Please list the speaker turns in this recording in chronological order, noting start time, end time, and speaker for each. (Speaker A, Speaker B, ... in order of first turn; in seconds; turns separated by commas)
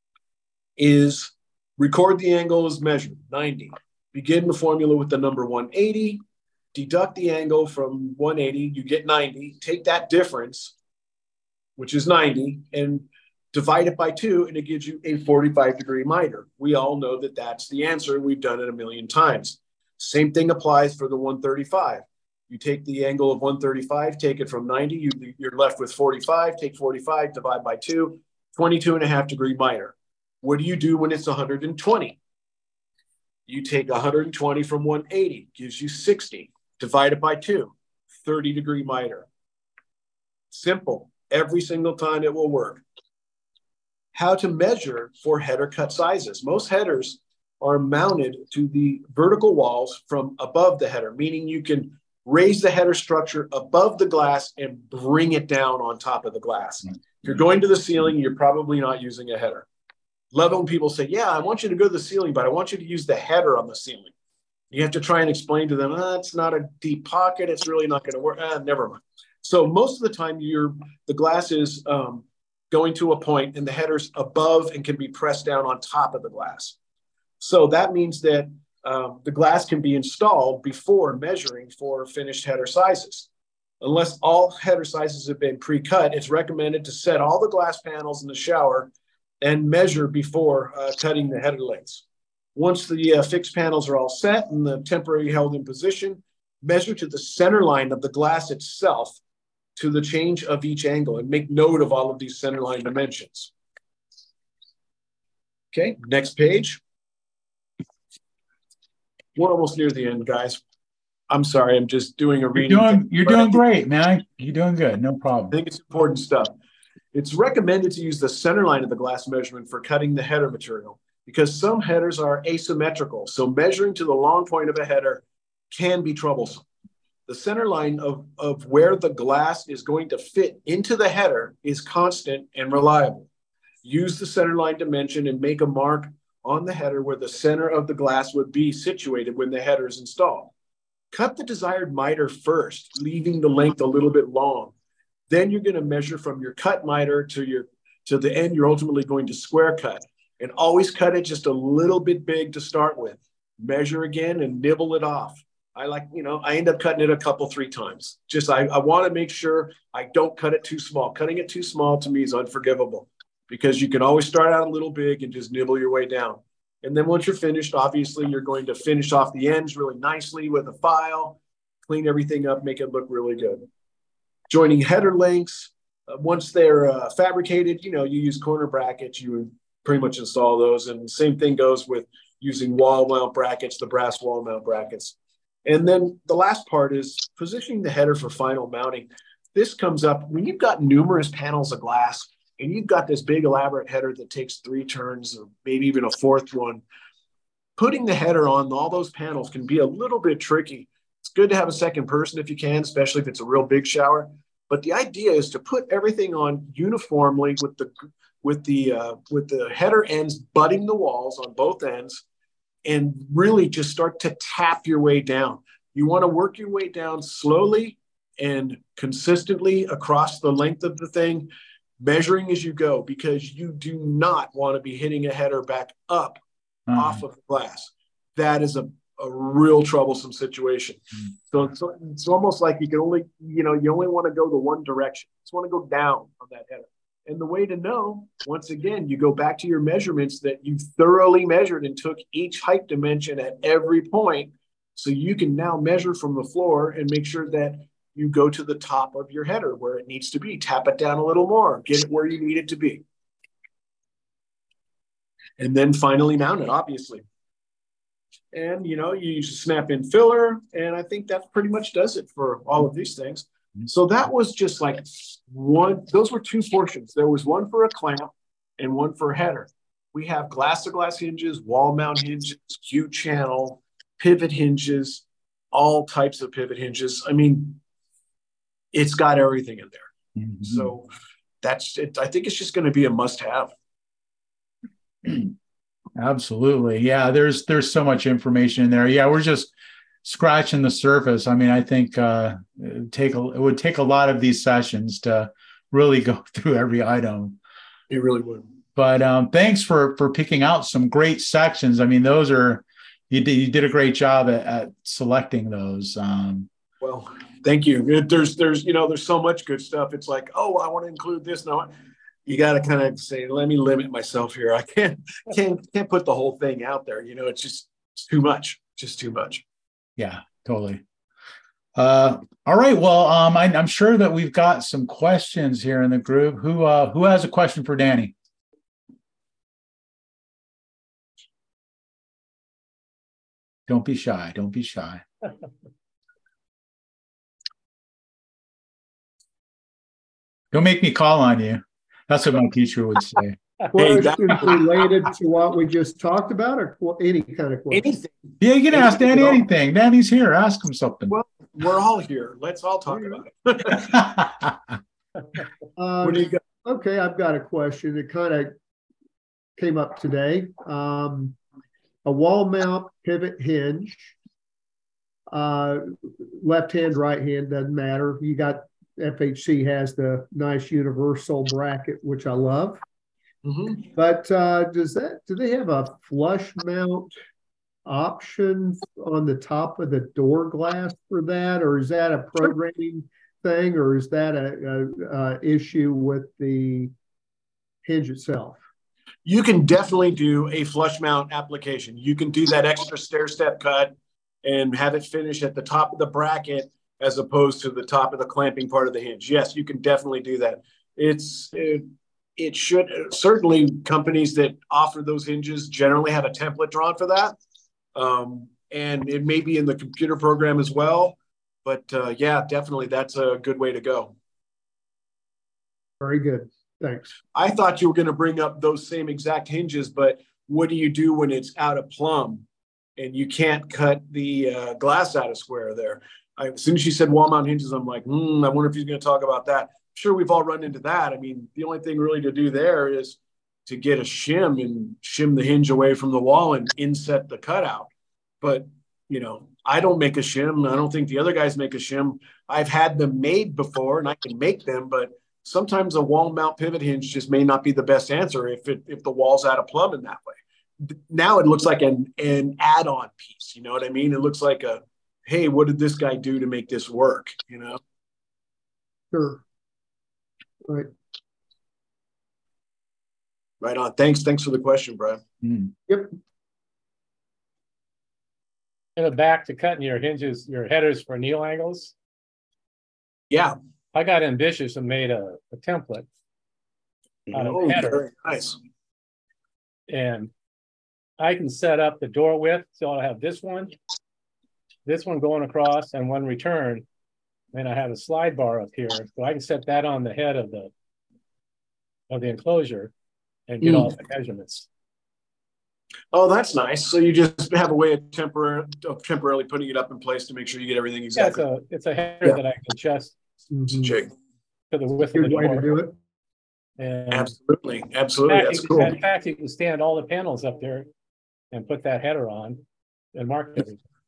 Speaker A: 0.8-6.2, Speaker A: 6.7-10.7, Speaker A: 11.8-32.2, Speaker A: 33.5-39.3, Speaker A: 40.5-42.8, Speaker A: 44.1-59.6, Speaker A: 60.3-64.1, Speaker A: 64.7-76.7, Speaker A: 77.4-83.3, Speaker A: 83.8-88.9, Speaker A: 89.4-92.0, Speaker A: 92.5-99.2, Speaker A: 99.8-103.5, Speaker A: 105.7-106.8, Speaker A: 109.3-110.6, Speaker A: 111.3-113.6, Speaker B: 112.5-115.6, Speaker A: 115.5-116.5, Speaker A: 117.1-126.6, Speaker A: 127.3-133.3, Speaker A: 133.8-140.5, Speaker A: 141.1-144.7, Speaker A: 145.3-173.7, Speaker A: 174.5-196.8, Speaker A: 197.8-207.9, Speaker A: 208.4-212.2, Speaker A: 212.8-221.5, Speaker A: 222.0-226.4, Speaker B: 226.9-227.2, Speaker A: 226.9-253.0, Speaker A: 255.6-257.2, Speaker A: 258.5-277.8, Speaker A: 278.9-280.1, Speaker B: 280.4-280.9, Speaker A: 280.6-281.1, Speaker A: 281.6-283.7, Speaker B: 285.2-285.5, Speaker B: 286.2-289.7, Speaker B: 290.2-297.6, Speaker A: 298.1-298.6, Speaker B: 298.9-306.7, Speaker A: 307.0-311.9, Speaker A: 312.4-319.6, Speaker B: 320.2-321.0, Speaker B: 321.9-328.3, Speaker B: 333.9-335.2, Speaker B: 340.7-343.6, Speaker C: 343.9-348.1, Speaker A: 343.9-344.9, Speaker A: 347.9-349.6, Speaker B: 348.6-351.3, Speaker A: 351.3-354.3, Speaker C: 353.1-353.4, Speaker B: 354.0-354.8, Speaker C: 356.0-358.7, Speaker A: 356.2-356.6, Speaker C: 359.8-361.6, Speaker C: 362.2-364.3, Speaker C: 365.5-373.0, Speaker A: 373.6-374.1, Speaker C: 374.1-377.3, Speaker C: 378.1-387.1, Speaker C: 388.0-388.8, Speaker A: 389.4-407.6, Speaker A: 408.1-414.3, Speaker C: 416.2-417.3, Speaker A: 417.5-422.6, Speaker A: 423.2-438.1, Speaker A: 438.6-458.0, Speaker C: 459.3-459.6, Speaker A: 463.8-465.4, Speaker B: 465.6-465.9, Speaker D: 469.2-472.1, Speaker D: 474.1-476.3, Speaker D: 477.5-478.2, Speaker A: 477.5-478.8, Speaker D: 480.1-480.5, Speaker D: 481.4-483.9, Speaker D: 485.1-487.0, Speaker D: 487.7-490.9, Speaker D: 492.3-493.1, Speaker D: 493.7-494.9, Speaker A: 493.8-494.1, Speaker A: 496.3-501.6, Speaker D: 501.4-503.3, Speaker C: 503.7-504.2, Speaker A: 503.9-504.3, Speaker D: 504.9-505.9, Speaker C: 505.3-506.1, Speaker D: 507.0-507.5, Speaker A: 507.3-509.2, Speaker D: 508.5-511.1, Speaker D: 511.7-512.8, Speaker D: 513.3-514.0